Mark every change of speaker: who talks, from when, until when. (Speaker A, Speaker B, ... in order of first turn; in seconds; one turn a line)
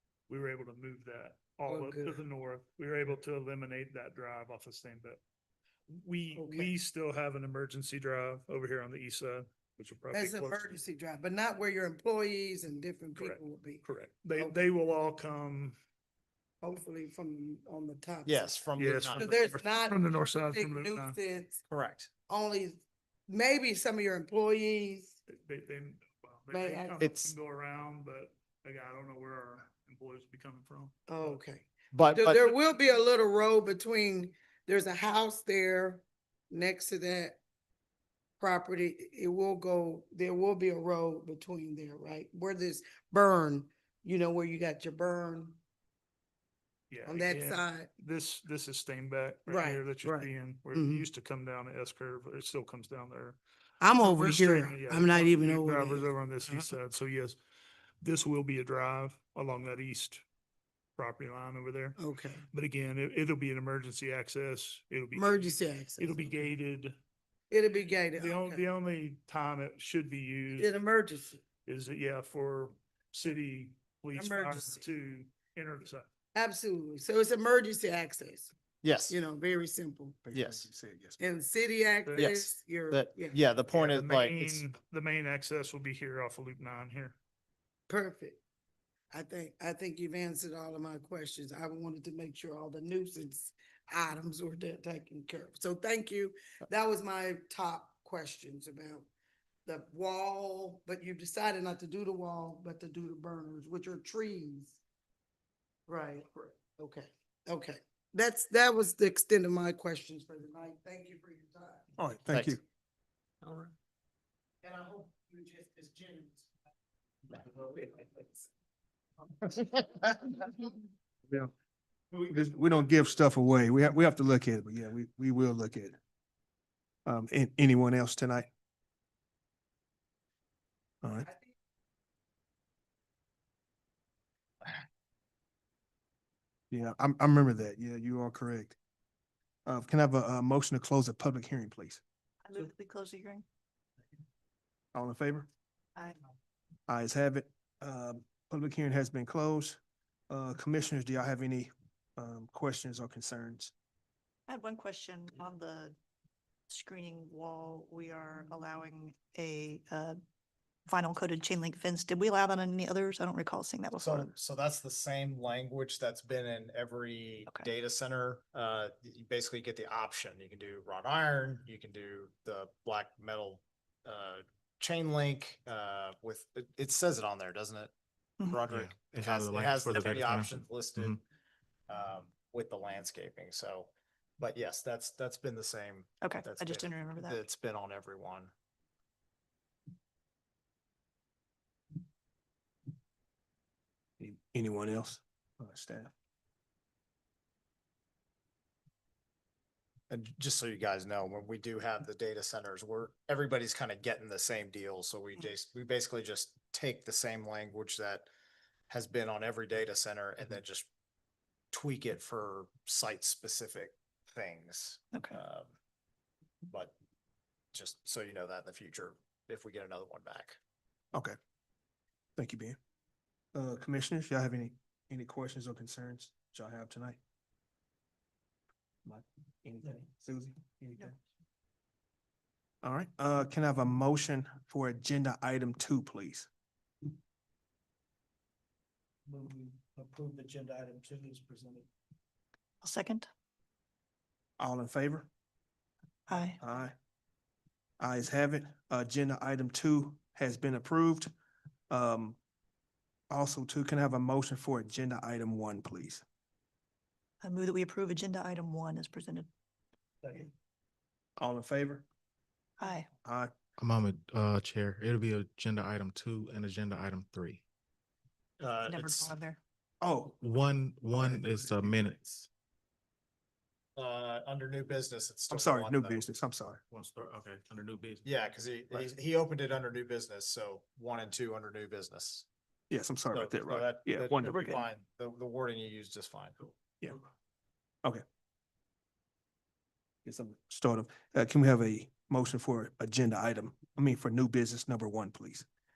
Speaker A: 0.3-5.2
Speaker B: 1.7-2.2
Speaker A: 5.9-10.8
Speaker B: 6.4-6.7
Speaker B: 10.1-14.6
Speaker A: 13.2-15.8
Speaker B: 16.6-18.5
Speaker C: 18.3-19.3
Speaker A: 18.8-21.2
Speaker B: 19.2-21.6
Speaker C: 21.7-22.1
Speaker B: 22.3-25.2
Speaker A: 25.3-31.4
Speaker B: 26.5-27.0
Speaker C: 27.0-27.4
Speaker B: 31.1-37.4
Speaker C: 31.9-32.5
Speaker B: 38.4-45.6
Speaker A: 46.9-53.4
Speaker B: 47.1-47.9
Speaker B: 49.5-51.1
Speaker B: 53.8-56.1
Speaker A: 54.0-57.4
Speaker A: 58.0-60.2
Speaker A: 61.0-62.0
Speaker B: 62.0-62.5
Speaker A: 62.5-67.0
Speaker B: 65.2-66.3
Speaker B: 67.5-68.6
Speaker A: 68.2-70.7
Speaker B: 70.6-71.4
Speaker A: 71.7-76.1
Speaker B: 74.1-74.8
Speaker B: 76.3-78.5
Speaker C: 78.8-79.2
Speaker B: 79.1-80.2
Speaker D: 80.2-81.2
Speaker C: 80.3-80.7
Speaker B: 81.2-83.4
Speaker A: 82.1-82.4
Speaker C: 82.2-84.7
Speaker A: 83.7-87.2
Speaker B: 87.9-88.4
Speaker B: 89.1-99.1
Speaker B: 99.7-104.8
Speaker B: 105.9-111.9
Speaker D: 112.0-112.6
Speaker C: 112.3-112.6
Speaker C: 113.4-113.7
Speaker B: 114.6-116.5
Speaker B: 117.3-118.5
Speaker C: 119.5-120.1
Speaker D: 122.3-126.0
Speaker D: 127.1-128.5
Speaker D: 131.0-131.3
Speaker D: 136.7-138.8
Speaker D: 139.7-142.0
Speaker E: 142.4-143.4
Speaker D: 144.9-145.5
Speaker D: 146.9-153.7
Speaker E: 154.5-156.0
Speaker E: 156.7-160.2
Speaker E: 160.9-164.3
Speaker C: 164.0-177.9
Speaker E: 178.4-178.7
Speaker C: 178.5-181.2
Speaker F: 178.7-181.2
Speaker C: 181.9-188.5
Speaker E: 186.2-187.4
Speaker D: 194.2-196.1
Speaker C: 200.1-208.3
Speaker C: 208.9-210.9
Speaker C: 211.7-215.7
Speaker E: 215.1-215.4
Speaker C: 217.7-220.6
Speaker D: 222.4-222.8
Speaker D: 223.6-227.2
Speaker D: 229.1-231.1
Speaker D: 232.8-236.5
Speaker D: 239.3-241.9
Speaker E: 242.8-243.3
Speaker D: 244.6-245.3
Speaker E: 246.3-246.6
Speaker D: 246.6-246.9
Speaker D: 248.0-251.3
Speaker D: 251.9-252.4
Speaker D: 253.3-256.2
Speaker E: 257.4-259.5
Speaker D: 261.4-262.1
Speaker E: 262.8-263.1
Speaker D: 263.2-263.5
Speaker F: 263.8-267.6
Speaker C: 268.6-269.4
Speaker E: 268.9-269.6
Speaker D: 270.0-270.4
Speaker F: 270.4-272.5
Speaker D: 271.1-272.0
Speaker C: 274.0-276.2
Speaker D: 275.5-276.8
Speaker F: 276.9-278.4
Speaker C: 278.2-282.5
Speaker D: 282.9-284.9
Speaker C: 283.3-286.7
Speaker D: 290.2-295.7